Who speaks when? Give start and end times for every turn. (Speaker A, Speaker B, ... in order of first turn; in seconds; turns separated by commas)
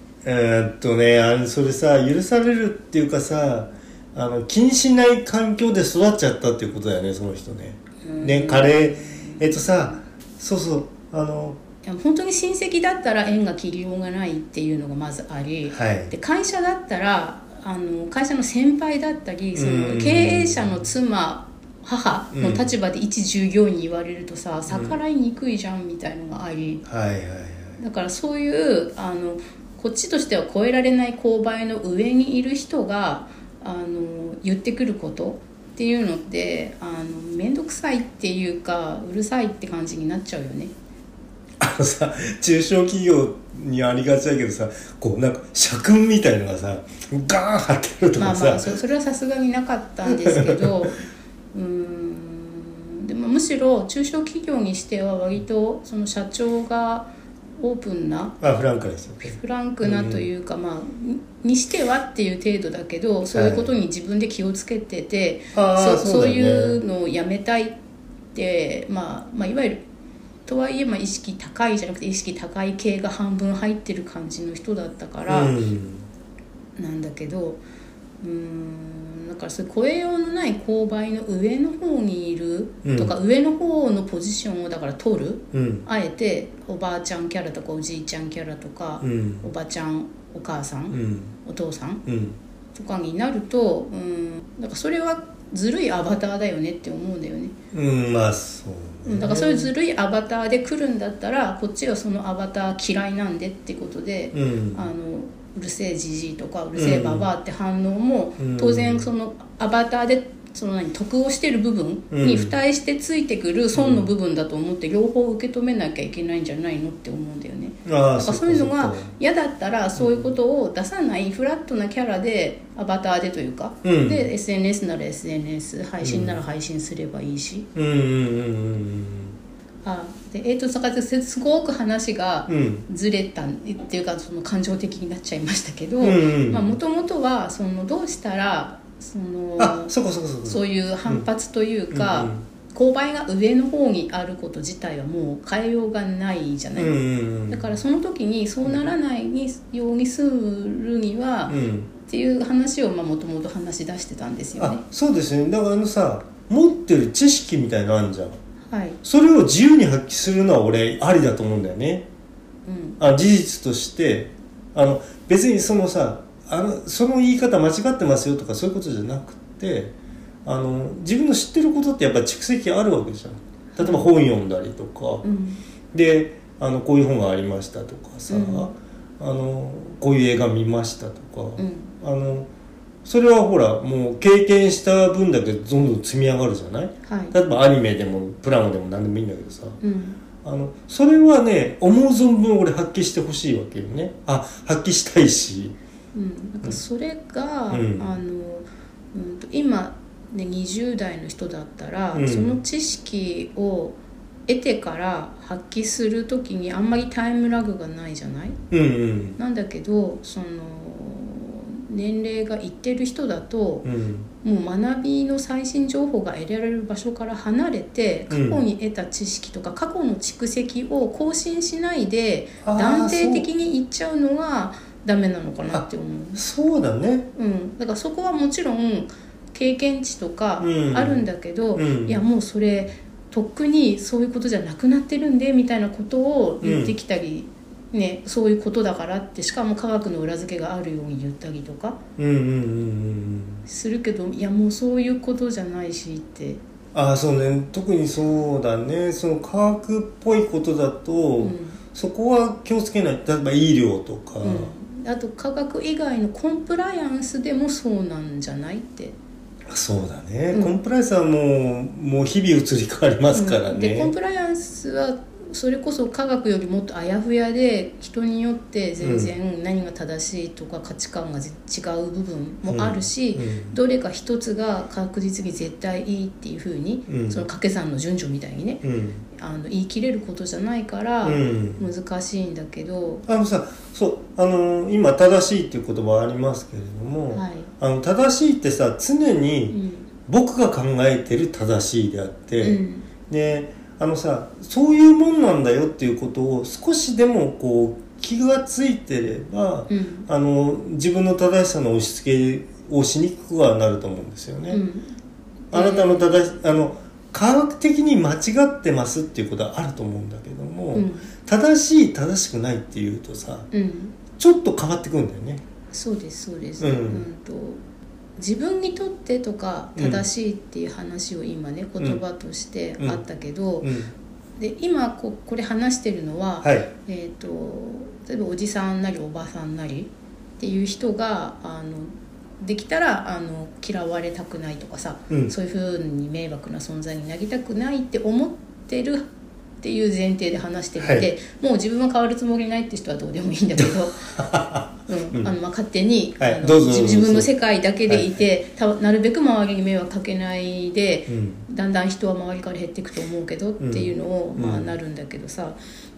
Speaker A: 0.2-11.6, Speaker B: 8.0-9.9, Speaker B: 11.8-26.8, Speaker A: 15.7-16.1, Speaker A: 19.5-20.8, Speaker A: 22.3-22.7, Speaker A: 24.7-25.0, Speaker A: 26.8-27.8, Speaker B: 27.8-40.7, Speaker A: 41.6-48.8, Speaker B: 48.2-51.0, Speaker A: 50.1-50.9, Speaker B: 51.5-58.4, Speaker A: 58.4-60.2, Speaker B: 59.2-67.7, Speaker A: 63.3-63.7, Speaker A: 65.5-66.8, Speaker B: 68.3-69.8, Speaker B: 70.5-75.5, Speaker A: 75.3-76.0, Speaker B: 76.8-77.6, Speaker B: 78.2-92.0, Speaker A: 82.8-83.1, Speaker A: 85.5-85.8, Speaker A: 89.0-89.5, Speaker A: 90.9-91.3, Speaker A: 92.0-92.3, Speaker B: 92.7-97.5, Speaker A: 97.7-99.7, Speaker B: 99.0-127.7, Speaker A: 104.3-104.8, Speaker A: 106.8-107.3, Speaker A: 108.4-109.1, Speaker A: 112.1-112.5, Speaker A: 113.7-114.1, Speaker A: 117.8-119.1, Speaker A: 120.0-120.3, Speaker A: 123.8-124.3, Speaker A: 126.0-126.4, Speaker A: 127.7-129.3, Speaker B: 129.8-139.9, Speaker A: 132.5-132.8, Speaker A: 136.0-136.8, Speaker A: 139.6-141.2, Speaker B: 140.4-146.9, Speaker A: 141.9-142.4, Speaker A: 146.8-147.7, Speaker B: 147.5-154.8, Speaker A: 151.5-151.9, Speaker A: 154.6-158.4, Speaker B: 158.7-159.0, Speaker A: 159.0-162.1, Speaker B: 162.6-163.0, Speaker A: 163.0-169.9, Speaker A: 170.4-175.2, Speaker B: 173.7-174.1, Speaker B: 175.2-175.6, Speaker A: 175.9-182.5, Speaker B: 178.3-178.7, Speaker B: 181.6-181.9, Speaker A: 183.0-189.8, Speaker B: 187.0-187.3, Speaker B: 189.8-190.2, Speaker A: 190.4-195.8, Speaker B: 196.1-208.6, Speaker A: 197.7-198.2, Speaker A: 202.1-202.6, Speaker A: 208.7-209.4, Speaker B: 209.4-213.9, Speaker A: 213.8-214.3, Speaker B: 214.4-226.4, Speaker A: 218.3-218.6, Speaker A: 222.6-223.5, Speaker A: 225.7-227.3, Speaker B: 227.3-242.0, Speaker A: 230.6-231.2, Speaker A: 231.8-232.2, Speaker A: 236.6-236.9, Speaker A: 242.2-243.6, Speaker B: 243.7-246.6, Speaker A: 246.9-254.7, Speaker B: 251.4-251.8, Speaker B: 254.4-259.1, Speaker A: 259.7-264.1, Speaker B: 263.3-283.2, Speaker A: 269.0-269.3, Speaker A: 272.7-273.8, Speaker A: 277.1-277.4, Speaker A: 278.8-279.2, Speaker A: 281.2-281.9, Speaker A: 283.2-304.8, Speaker B: 287.3-287.7, Speaker B: 289.7-290.1, Speaker B: 292.6-293.1, Speaker B: 299.9-300.3, Speaker B: 304.7-305.1, Speaker B: 305.7-306.3, Speaker A: 305.7-313.7, Speaker B: 310.9-311.3, Speaker B: 313.7-314.1, Speaker A: 314.4-315.6, Speaker B: 315.9-317.8, Speaker A: 316.8-317.2, Speaker B: 318.4-323.9, Speaker A: 319.9-320.2, Speaker A: 323.8-324.1, Speaker B: 324.6-339.2, Speaker A: 326.6-326.9, Speaker B: 339.8-344.3, Speaker A: 341.0-341.3, Speaker A: 343.8-345.5, Speaker B: 345.1-355.8, Speaker A: 346.4-347.5, Speaker A: 348.1-348.4, Speaker A: 351.3-351.6, Speaker A: 353.8-354.9